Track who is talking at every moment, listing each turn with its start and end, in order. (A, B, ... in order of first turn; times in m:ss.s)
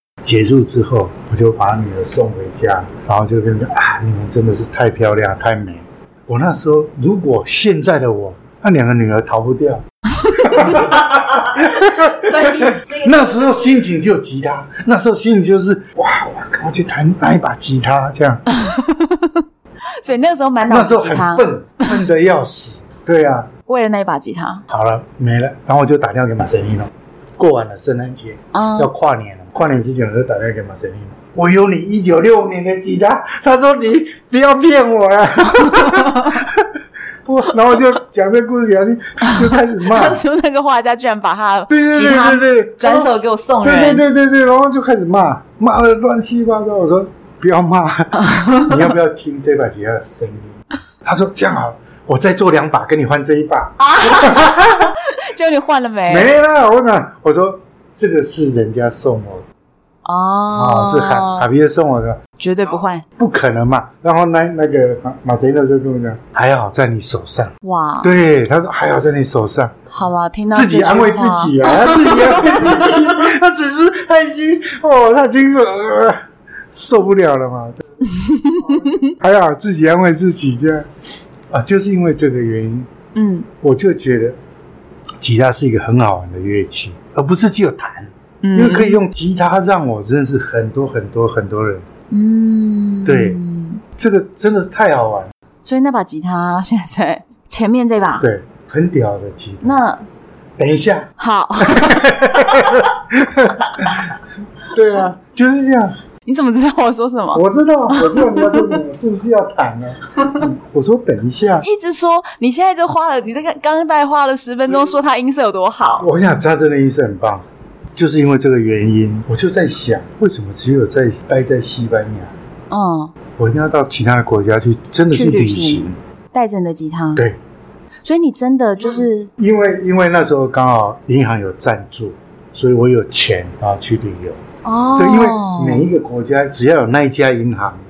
0:00.2-0:18.4 A
0:10.3-0:11.0 B
0:12.1-0:13.4 B
0:18.5-0:21.5 B
0:20.7-0:23.5 A
0:23.7-0:24.6 B
0:24.7-0:40.2 A
0:28.5-0:28.9 B
0:35.7-0:36.3 B
0:39.2-0:44.0 B
0:41.7-0:54.9 A
0:48.2-0:48.8 B
0:53.8-0:56.3 B
0:56.1-0:59.4 A
1:00.0-1:01.5 B
1:00.5-1:02.2 A
1:02.4-1:03.0 B
1:03.2-1:09.9 A
1:07.6-1:08.1 B
1:09.9-1:13.0 B
1:10.5-1:20.9 A
1:18.0-1:19.1 B
1:21.5-1:22.9 A
1:23.1-1:23.5 B
1:23.6-1:24.4 A
1:25.2-1:31.9 A
1:28.4-1:29.0 B
1:32.1-1:33.8 B
1:33.0-1:33.4 A
1:34.0-1:35.3 A
1:35.6-1:38.2 B
1:38.2-1:39.8 A
1:39.6-1:40.0 B
1:40.6-1:46.0 A
1:41.2-1:42.8 B
1:46.3-1:48.8 B
1:47.3-1:51.7 A
1:51.6-1:56.1 B
1:56.0-2:02.3 A
2:02.7-2:03.1 B
2:03.4-2:06.0 A
2:05.1-2:07.2 B
2:08.0-2:09.3 B
2:08.8-2:14.4 A
2:14.6-2:15.9 B
2:15.0-2:17.8 A